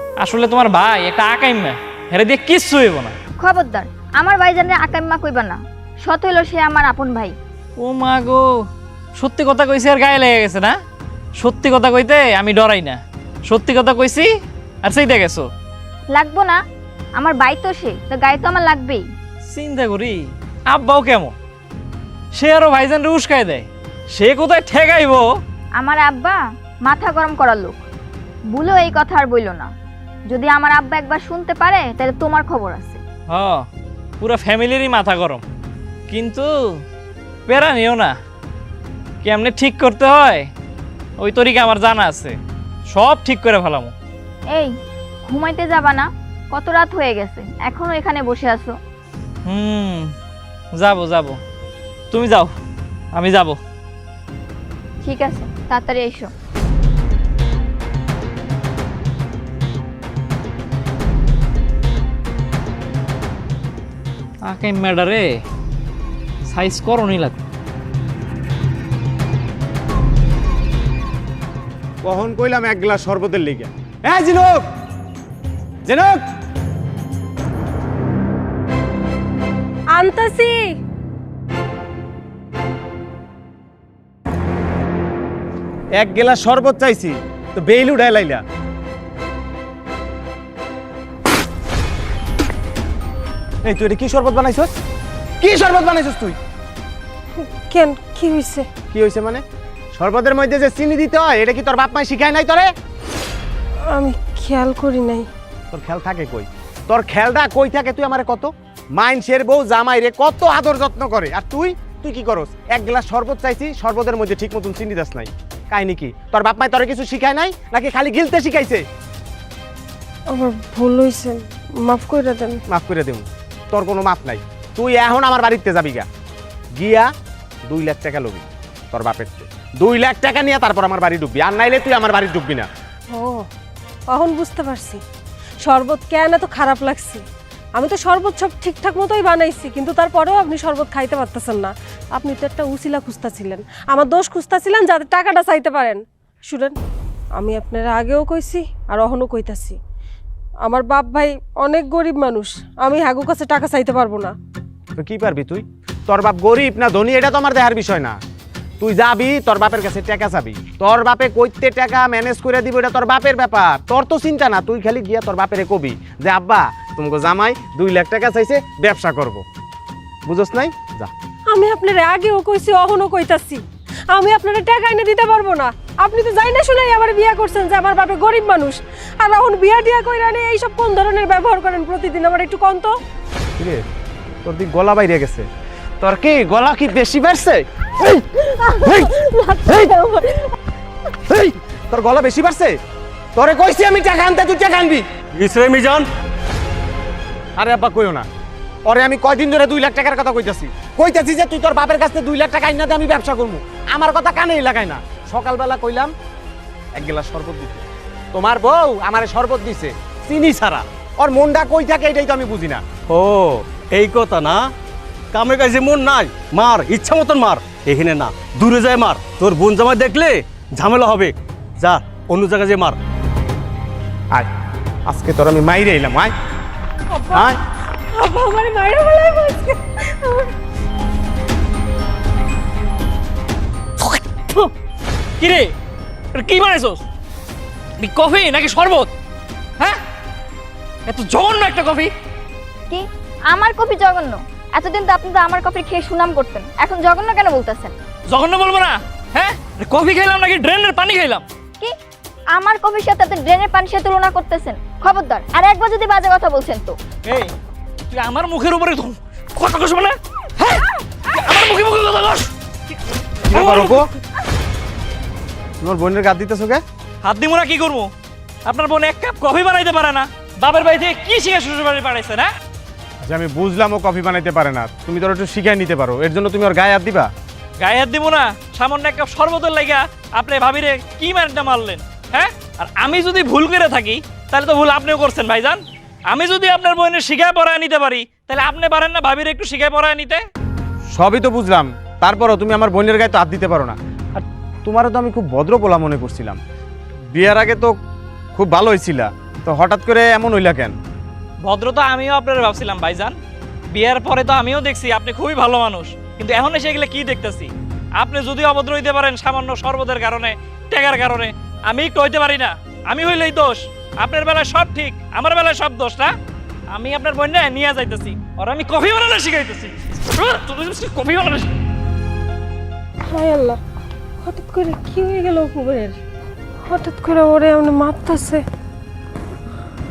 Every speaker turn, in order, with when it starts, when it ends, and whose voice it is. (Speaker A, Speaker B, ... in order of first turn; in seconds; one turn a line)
Speaker A: 0.2-3.1
Speaker B: 3.4-7.3
Speaker A: 7.8-8.4
Speaker A: 9.2-10.8
Speaker A: 11.4-14.3
Speaker A: 14.8-15.5
Speaker B: 16.1-16.6
Speaker B: 17.2-19.0
Speaker A: 19.5-20.2
Speaker A: 20.7-21.3
Speaker A: 22.4-25.2
Speaker B: 25.8-27.8
Speaker B: 28.5-29.7
Speaker B: 30.3-33.0
Speaker A: 33.3-33.6
Speaker A: 34.2-35.4
Speaker A: 36.1-36.5
Speaker A: 37.5-38.1
Speaker A: 39.2-40.5
Speaker A: 41.2-42.4
Speaker A: 42.9-43.9
Speaker B: 45.2-48.7
Speaker A: 49.5-50.1
Speaker A: 50.8-51.4
Speaker A: 52.1-52.5
Speaker A: 53.1-53.6
Speaker B: 55.0-56.3
Speaker A: 64.5-65.4
Speaker A: 66.5-67.4
Speaker C: 72.0-74.7
Speaker C: 75.8-76.2
Speaker D: 79.9-80.6
Speaker C: 86.0-88.4
Speaker C: 93.6-94.7
Speaker C: 95.4-96.4
Speaker D: 97.7-98.7
Speaker C: 98.9-99.4
Speaker C: 99.9-102.7
Speaker D: 103.9-105.3
Speaker C: 105.7-118.8
Speaker D: 120.3-122.6
Speaker C: 122.7-126.1
Speaker C: 126.8-127.1
Speaker C: 127.7-132.7
Speaker D: 133.1-133.4
Speaker D: 134.1-135.0
Speaker D: 135.6-137.2
Speaker D: 137.8-146.7
Speaker D: 147.4-149.7
Speaker D: 150.6-154.3
Speaker C: 154.9-158.2
Speaker C: 158.8-169.4
Speaker C: 170.2-171.1
Speaker D: 171.5-182.9
Speaker C: 183.6-183.8
Speaker C: 184.4-185.5
Speaker C: 186.0-187.6
Speaker D: 189.2-190.2
Speaker C: 191.3-192.8
Speaker C: 193.3-195.0
Speaker E: 195.3-196.1
Speaker C: 197.6-198.3
Speaker C: 198.9-206.1
Speaker C: 206.9-207.8
Speaker C: 208.3-212.8
Speaker E: 213.1-214.6
Speaker E: 215.3-223.0
Speaker C: 225.1-226.3
Speaker D: 227.1-227.5
Speaker D: 228.1-230.5
Speaker A: 234.0-234.7
Speaker A: 235.4-235.7
Speaker A: 236.4-237.0
Speaker A: 238.0-239.1
Speaker A: 241.1-242.1
Speaker B: 242.9-247.9
Speaker A: 248.3-251.4
Speaker B: 252.5-257.0
Speaker A: 257.3-257.5
Speaker A: 258.1-262.5
Speaker C: 263.5-264.1
Speaker A: 263.5-264.0
Speaker C: 265.8-266.8
Speaker A: 267.2-268.1
Speaker A: 268.6-272.5
Speaker C: 273.2-277.3
Speaker A: 277.8-290.4
Speaker C: 291.1-296.6
Speaker C: 297.3-297.9
Speaker C: 298.5-300.9
Speaker A: 301.6-303.3
Speaker A: 303.9-316.3
Speaker A: 316.9-321.7
Speaker D: 323.3-323.8
Speaker D: 324.4-326.1
Speaker D: 326.9-328.6